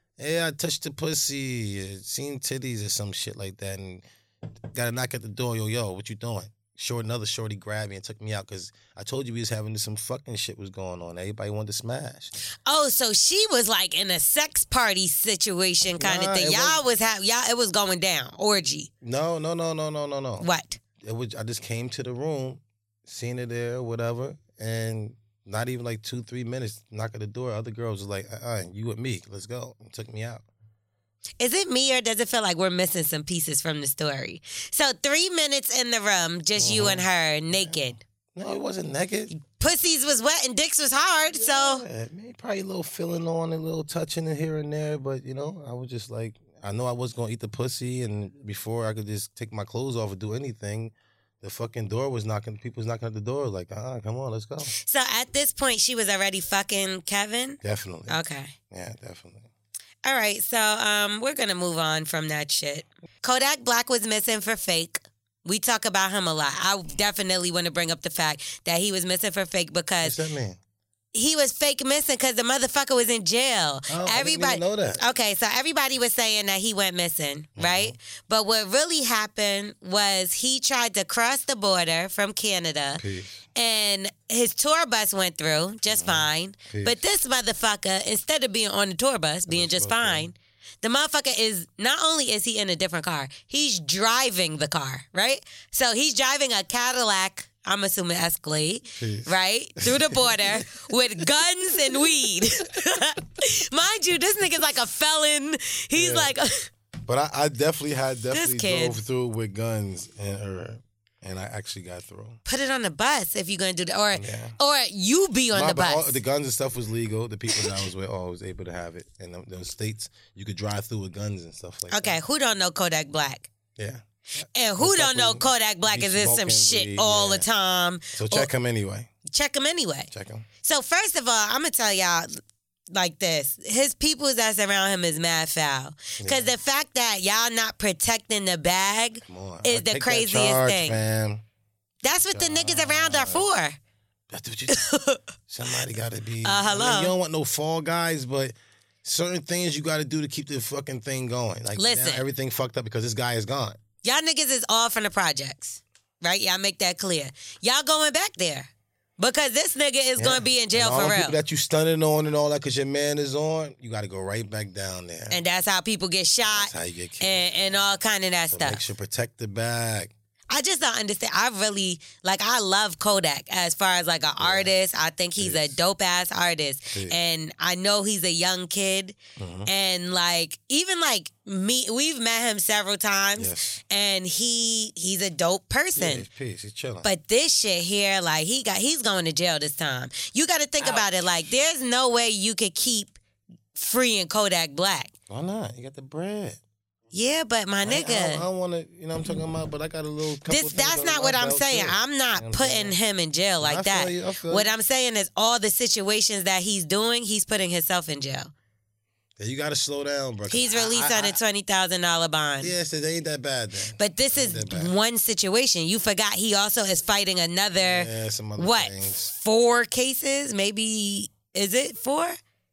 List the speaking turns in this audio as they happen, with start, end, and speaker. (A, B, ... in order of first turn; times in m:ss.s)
0:00.2-0:04.0 A
0:04.7-0:12.3 A
0:12.6-0:18.9 B
0:16.0-0:16.8 A
0:19.0-0:20.5 A
0:20.4-0:20.8 B
0:21.0-0:30.4 A
0:31.4-0:38.0 B
0:36.6-0:39.3 A
0:39.3-0:41.8 B
0:41.3-0:54.7 A
0:54.8-0:58.5 B
0:57.6-0:58.2 A
0:58.7-0:59.5 A
1:00.0-1:10.2 B
1:10.0-1:10.6 A
1:11.1-1:23.0 B
1:13.9-1:15.0 A
1:17.6-1:18.0 A
1:23.0-1:23.5 A
1:23.6-1:46.7 B
1:25.9-1:27.0 A
1:29.5-1:30.3 A
1:39.0-1:40.7 A
1:45.9-1:46.3 A
1:47.0-1:52.4 A
1:48.3-1:49.0 B
1:52.5-1:56.2 B
1:54.1-1:54.6 A
1:55.5-2:02.2 A
2:01.9-2:03.5 B
2:03.8-2:07.5 A
2:04.5-2:08.5 B
2:08.1-2:09.1 A
2:09.3-2:10.1 B
2:10.1-2:10.5 A
2:10.6-2:12.3 B
2:12.9-2:21.0 B
2:16.2-2:16.5 A
2:19.2-2:21.4 A
2:22.0-2:23.8 B
2:22.3-2:23.4 A
2:24.3-2:24.8 A
2:24.7-2:25.2 B
2:25.5-2:33.8 A
2:26.4-2:27.1 B
2:31.8-2:32.2 B
2:34.0-2:41.4 B
2:40.2-2:45.4 A
2:45.3-2:48.8 B
2:46.5-2:47.8 A
2:48.5-2:50.1 A
2:50.5-3:06.2 B
2:54.4-2:54.7 A
2:55.4-2:55.8 A
2:59.4-2:59.7 A
3:03.4-3:03.8 A
3:05.9-3:07.1 A
3:07.0-3:13.2 B
3:10.8-3:11.1 A
3:13.7-3:15.1 B
3:15.3-3:16.6 A
3:17.1-3:18.4 B
3:17.8-3:23.0 A
3:20.5-3:28.5 B
3:23.6-3:24.7 A
3:29.4-3:31.4 A
3:30.5-3:32.7 B
3:32.6-3:34.9 A
3:34.0-3:42.4 B
3:37.8-3:39.3 A